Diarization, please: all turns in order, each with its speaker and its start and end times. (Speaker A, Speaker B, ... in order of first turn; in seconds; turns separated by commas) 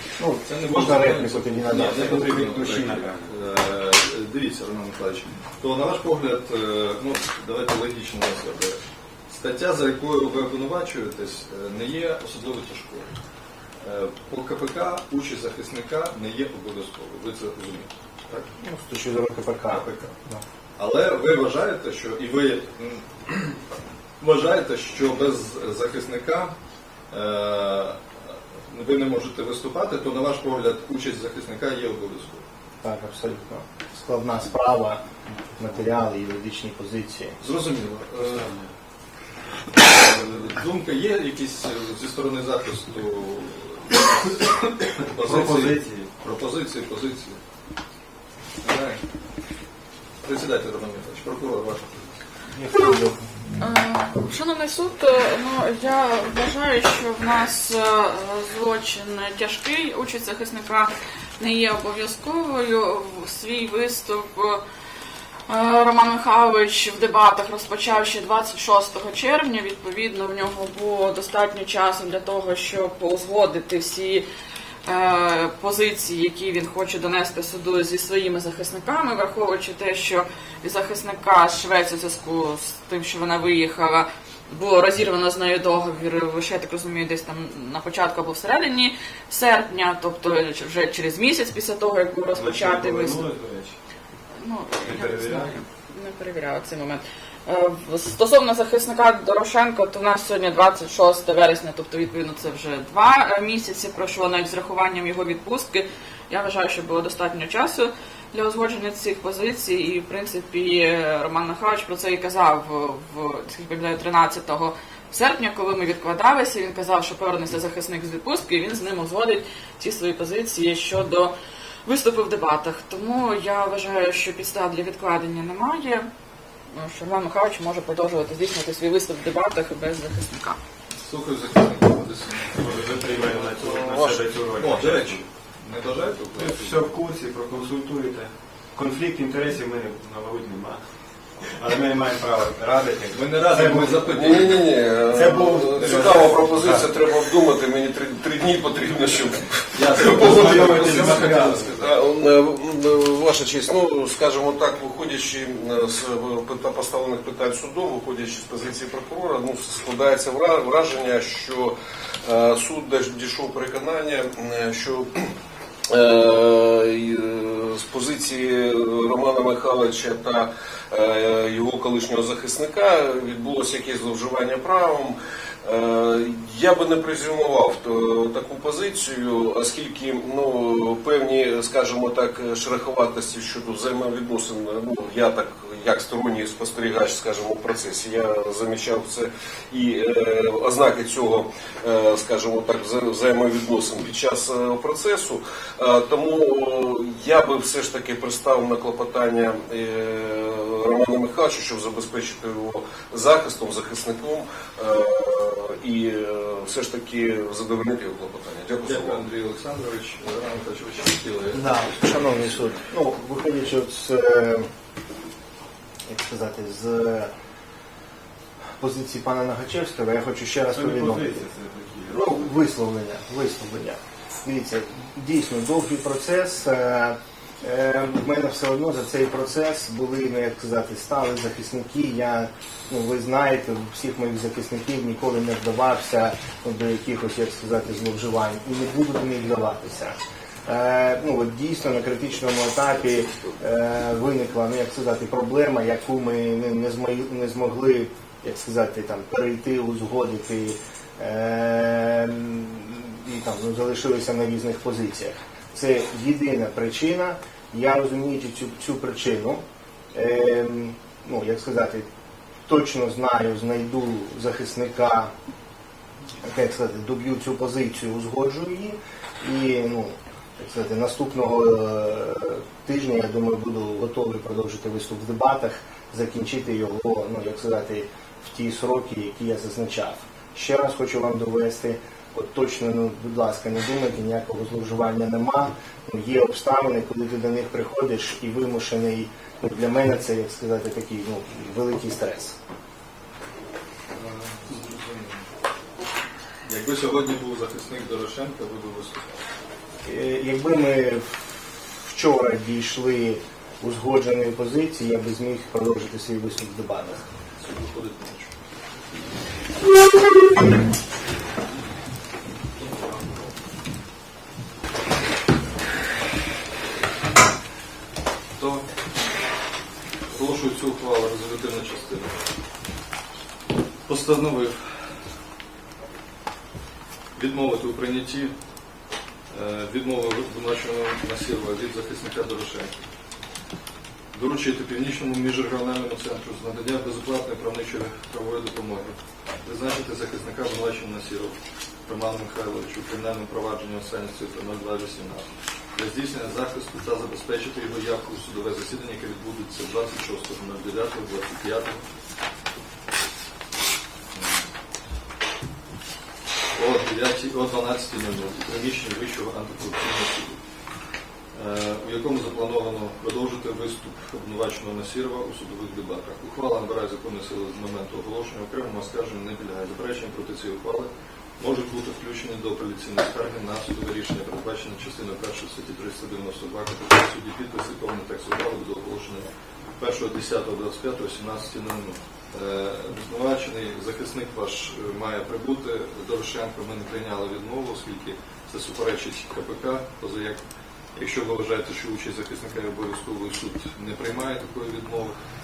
Speaker A: 0.2-2.5, Speaker B: 0.5-13.1, Speaker C: 1.7-3.3, Speaker B: 13.8-18.5, Speaker A: 18.6-20.4, Speaker B: 19.7-20.1, Speaker B: 20.8-23.6, Speaker B: 24.2-26.5, Speaker B: 27.1-32.4, Speaker A: 32.8-35.0, Speaker A: 35.6-37.4, Speaker B: 37.4-38.5, Speaker C: 38.2-38.7, Speaker B: 39.8-47.4, Speaker C: 45.2-46.1, Speaker B: 48.6-49.0, Speaker B: 50.2-51.9, Speaker A: 52.5-53.3, Speaker D: 53.6-64.6, Speaker D: 65.5-74.2, Speaker D: 74.9-93.3, Speaker C: 92.3-93.7, Speaker D: 94.4-121.3, Speaker C: 94.9-95.5, Speaker D: 121.8-126.0, Speaker D: 126.7-130.6, Speaker B: 131.0-132.5, Speaker C: 132.5-135.2, Speaker E: 133.6-134.2, Speaker B: 134.6-136.9, Speaker C: 136.3-140.8, Speaker C: 141.4-144.1, Speaker B: 143.1-144.7, Speaker E: 144.1-165.2, Speaker C: 145.1-147.1, Speaker B: 149.7-151.9, Speaker C: 149.9-151.7, Speaker E: 165.9-209.3, Speaker B: 208.8-212.7, Speaker A: 211.5-214.7, Speaker A: 216.1-217.3, Speaker A: 218.8-221.5, Speaker C: 220.7-222.4, Speaker A: 222.1-259.6, Speaker E: 243.0-243.5, Speaker A: 260.1-262.1, Speaker A: 262.7-265.3, Speaker A: 266.4-292.6, Speaker B: 294.1-295.4, Speaker B: 296.6-299.4, Speaker A: 300.0-301.5, Speaker A: 302.1-307.2, Speaker B: 307.6-308.5, Speaker B: 312.7-313.5, Speaker B: 318.6-318.8, Speaker B: 320.3-322.3, Speaker B: 324.1-324.8, Speaker B: 327.3-328.5, Speaker B: 329.5-332.9, Speaker B: 334.3-352.0, Speaker B: 356.8-360.6, Speaker B: 361.5-379.5, Speaker B: 380.0-390.6, Speaker B: 391.1-395.3